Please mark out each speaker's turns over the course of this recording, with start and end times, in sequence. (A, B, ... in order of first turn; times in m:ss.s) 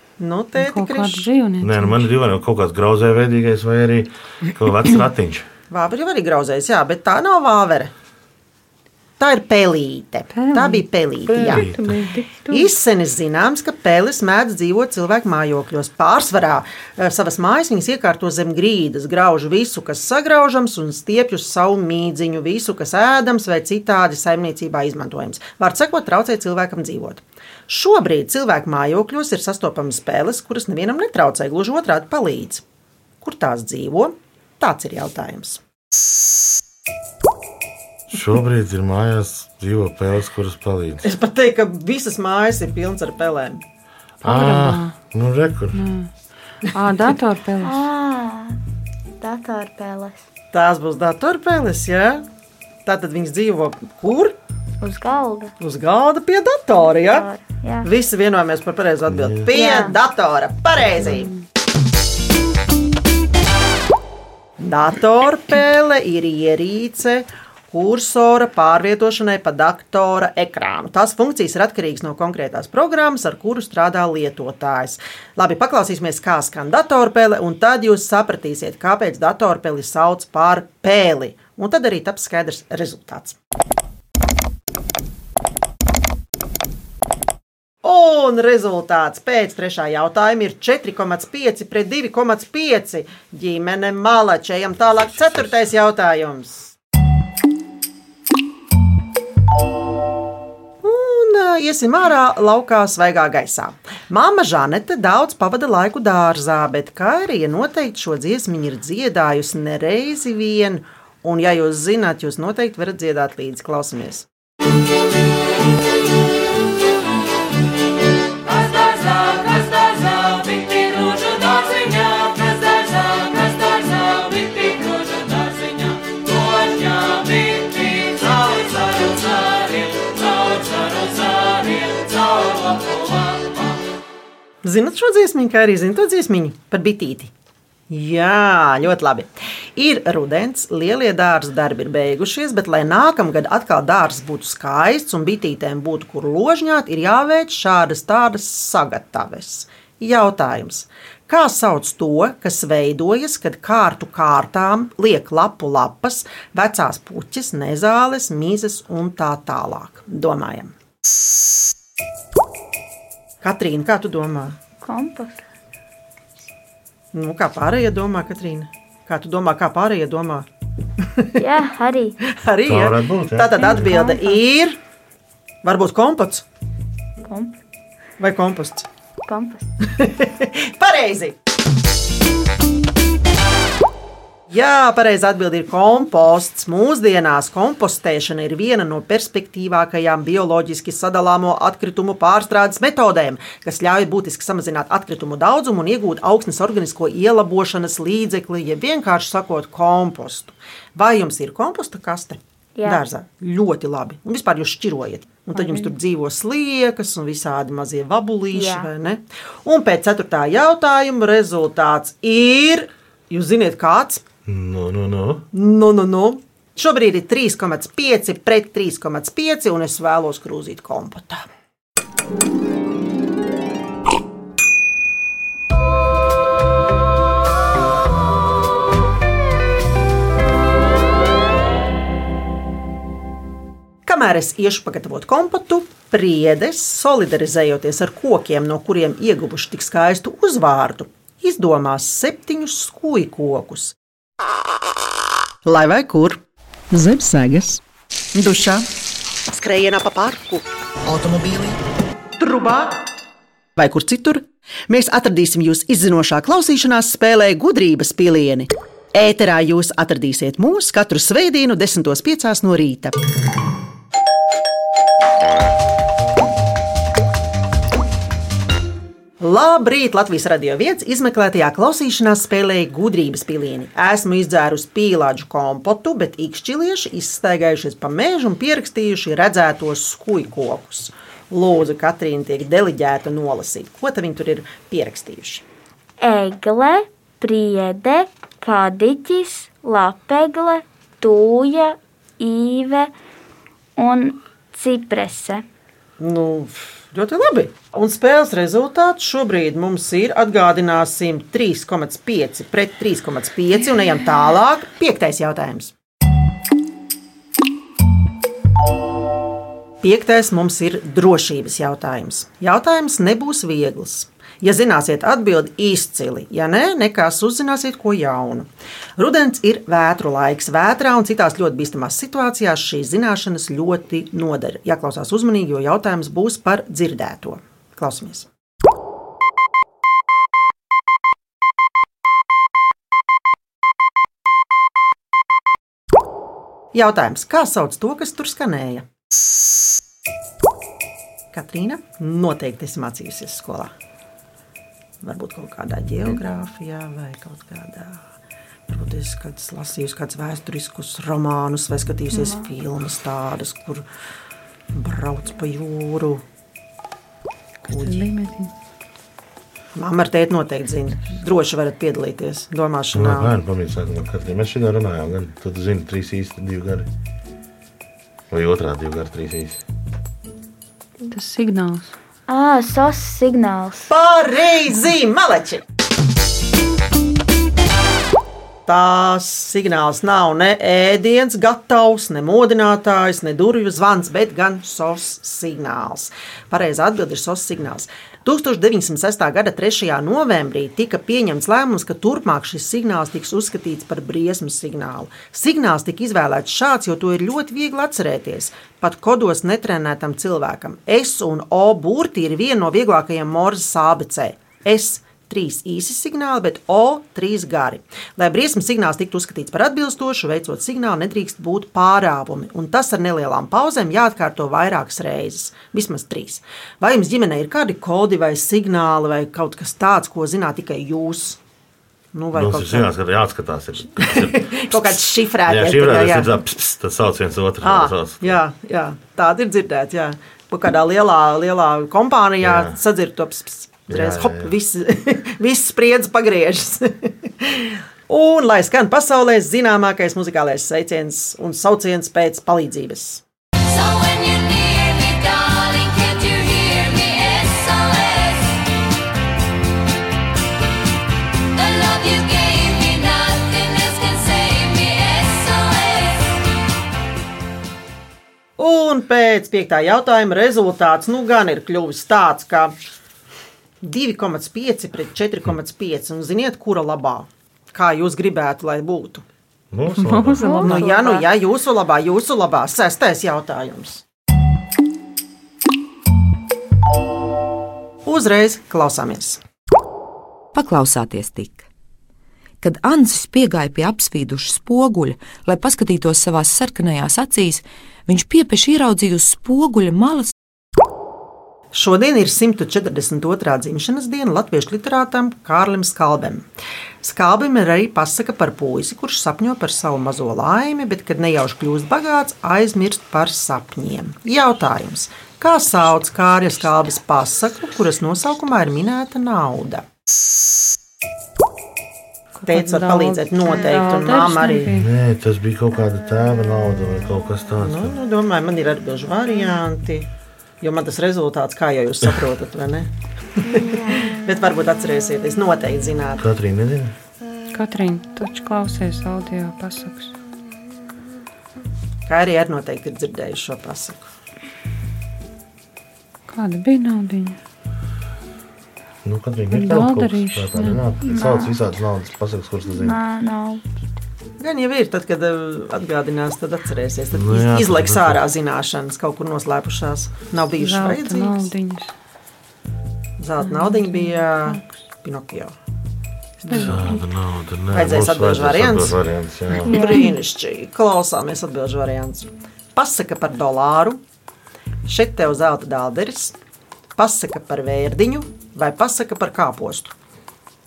0:00.2-0:01.3 A
0:00.6-0:02.1 B
0:01.6-0:05.5 C
0:05.7-0:07.9 A
0:09.2-0:11.6 A
0:10.3-0:12.7 B
0:11.3-0:12.0 C
0:12.5-0:32.6 A
0:33.2-0:35.6 A
0:38.1-0:41.0 C
0:41.0-0:43.6 A
0:44.2-0:44.9 B
0:44.2-0:45.8 C
0:45.7-0:47.8 B
0:47.6-0:48.6 D
0:49.2-0:50.2 D
0:50.5-0:52.2 A
0:52.8-0:54.4 A
0:54.8-0:55.5 D
0:55.6-0:57.3 A
0:56.9-0:57.9 D
0:57.8-1:01.3 A
0:59.1-0:59.5 C
0:59.5-1:00.0 D
1:04.6-1:23.4 A
1:27.8-1:36.7 A
1:35.2-1:35.5 C
1:40.8-1:54.3 A
1:58.5-2:13.6 B
2:14.6-2:17.3 A
2:17.9-2:40.7 A
2:43.4-2:44.6 A
2:44.8-2:45.4 D
2:47.1-2:50.5 A
2:51.0-2:51.4 A
2:51.4-2:52.2 D
2:52.2-2:54.8 A
2:52.6-2:53.9 C
2:53.7-2:54.4 D
2:55.6-2:56.4 A
2:57.2-2:57.6 D
2:58.2-2:58.9 A
2:59.2-2:59.7 D
2:59.9-3:01.3 A
3:04.5-3:34.2 A
3:22.8-3:23.0 D
3:25.5-3:25.9 B
3:28.5-3:28.9 D
3:34.4-3:35.4 C
3:35.5-3:41.5 A
3:54.0-4:03.9 A
4:05.6-4:06.4 A
4:06.9-4:07.8 A
4:08.3-4:08.8 A
4:09.5-4:11.8 A
4:12.4-4:13.0 A
4:13.8-4:23.1 A
4:29.4-4:45.6 A
4:46.2-4:53.1 D
4:54.0-4:55.6 D
4:56.2-5:05.9 A
5:10.0-5:28.5 A
5:36.9-5:39.0 A
5:41.5-5:43.9 A
5:45.2-5:48.2 A
5:48.9-5:54.0 A
5:52.3-5:52.7 D
5:54.9-5:56.4 A
5:57.8-5:58.7 B
5:57.9-5:58.3 A
5:59.9-6:03.5 A
6:03.1-6:07.1 C
6:08.5-6:09.8 C
6:11.3-6:12.1 B
6:12.5-6:14.1 D
6:14.1-6:15.8 A
6:18.8-7:01.6 A
7:02.3-7:03.1 A
7:02.5-7:08.6 C
7:04.2-7:06.6 A
7:07.8-7:23.4 A
7:12.6-7:13.0 C
7:14.1-7:14.7 C
7:23.9-7:28.8 E
7:31.7-7:36.4 E
7:38.8-7:42.9 A
7:44.0-7:49.4 A
7:49.9-7:50.8 C
7:50.2-7:51.3 B
7:50.6-7:51.4 D
7:50.8-7:54.2 A
7:58.2-7:59.6 A
8:00.7-8:01.9 F
8:02.8-8:10.5 F
8:11.9-8:16.6 A
8:17.2-8:30.0 A
8:32.6-8:35.1 B
8:32.7-8:34.9 A
8:34.9-8:38.1 C
8:37.8-8:40.3 A
8:40.8-8:46.4 A
8:46.4-8:47.1 C
8:47.7-8:50.4 B
8:52.3-8:54.3 A
8:56.5-8:57.6 B
8:59.2-9:03.2 C
8:59.7-9:01.0 B
9:01.2-9:01.8 D
9:02.9-9:03.8 D
9:04.6-9:11.7 A
9:07.3-9:08.4 C
9:10.8-9:12.1 B
9:13.4-9:15.7 A
9:13.6-9:14.9 B
9:16.6-9:17.1 A
9:16.7-9:17.2 B
9:16.7-9:20.0 C
9:17.9-9:19.2 A
9:19.8-9:20.4 D
9:19.8-9:24.2 A
9:19.9-9:20.2 B
9:25.1-9:26.5 A
9:27.2-9:30.1 A